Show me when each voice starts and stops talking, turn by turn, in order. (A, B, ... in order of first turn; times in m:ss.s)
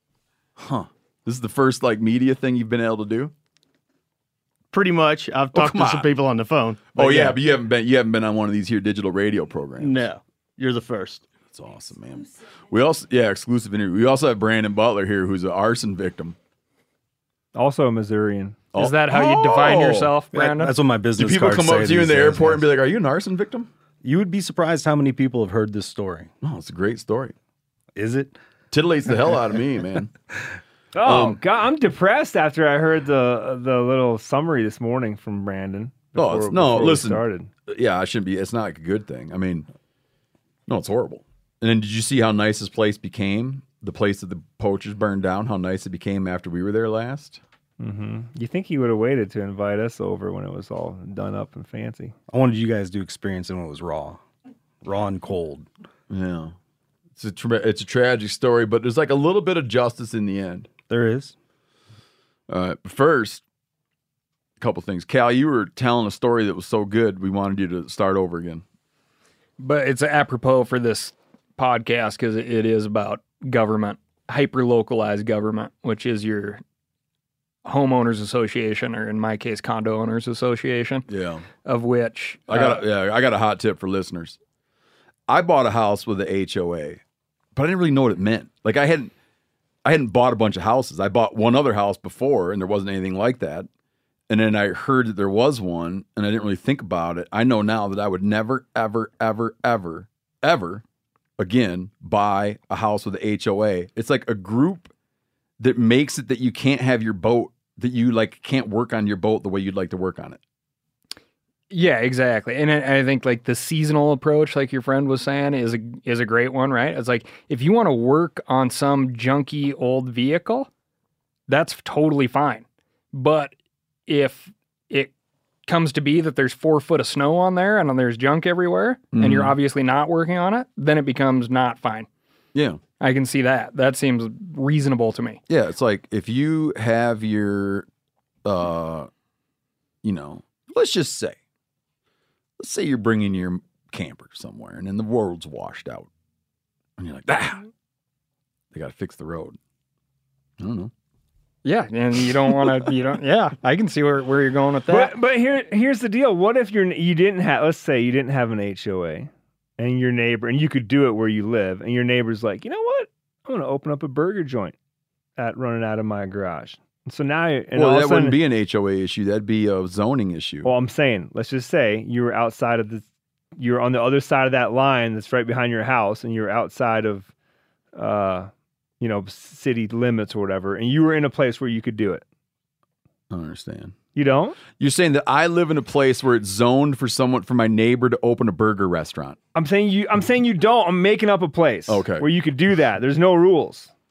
0:00.6-0:03.3 A
0:04.7-0:07.4 B
0:05.5-0:06.1 A
0:06.9-0:10.1 A
0:09.8-0:11.2 B
0:11.5-0:16.4 A
0:17.5-0:18.6 C
0:18.7-0:20.1 A
0:18.8-0:20.7 D
0:20.3-0:22.7 E
0:21.2-0:23.7 A
0:24.0-0:26.3 E
0:26.4-0:27.3 A
0:27.9-0:28.4 E
0:28.7-0:30.1 A
0:30.9-0:37.5 C
0:31.0-0:31.4 A
0:36.1-0:39.6 A
0:40.7-0:47.4 A
0:47.8-0:52.1 C
0:52.3-0:54.2 E
0:54.8-0:55.7 E
0:56.1-0:56.5 A
0:57.2-1:00.7 A
1:00.9-1:01.3 E
1:02.5-1:03.4 A
1:04.6-1:08.6 A
1:09.6-1:16.6 D
1:17.6-1:21.1 D
1:21.1-1:21.4 A
1:21.6-1:22.8 D
1:22.5-1:24.4 A
1:25.3-1:27.0 A
1:27.6-1:29.1 A
1:29.8-1:33.7 A
1:34.3-1:40.8 A
1:41.4-1:44.9 A
1:45.6-1:50.4 A
1:51.7-2:00.7 D
2:01.5-2:03.5 D
2:04.1-2:05.1 D
2:05.7-2:12.1 D
2:09.1-2:09.5 A
2:12.5-2:12.8 A
2:13.0-2:15.4 D
2:15.5-2:17.8 A
2:18.4-2:19.1 A
2:20.0-2:21.4 A
2:22.6-2:26.1 A
2:27.0-2:27.6 A
2:28.7-2:29.6 A
2:30.6-2:30.9 A
2:31.6-2:35.1 D
2:34.9-2:44.7 C
2:45.4-2:48.4 C
2:47.7-2:50.7 A
2:50.6-2:53.0 C
2:53.6-2:57.3 C
2:57.9-3:02.2 C
3:03.3-3:04.0 A
3:04.1-3:04.6 C
3:04.8-3:09.4 A
3:09.5-3:13.9 C
3:11.9-3:12.2 A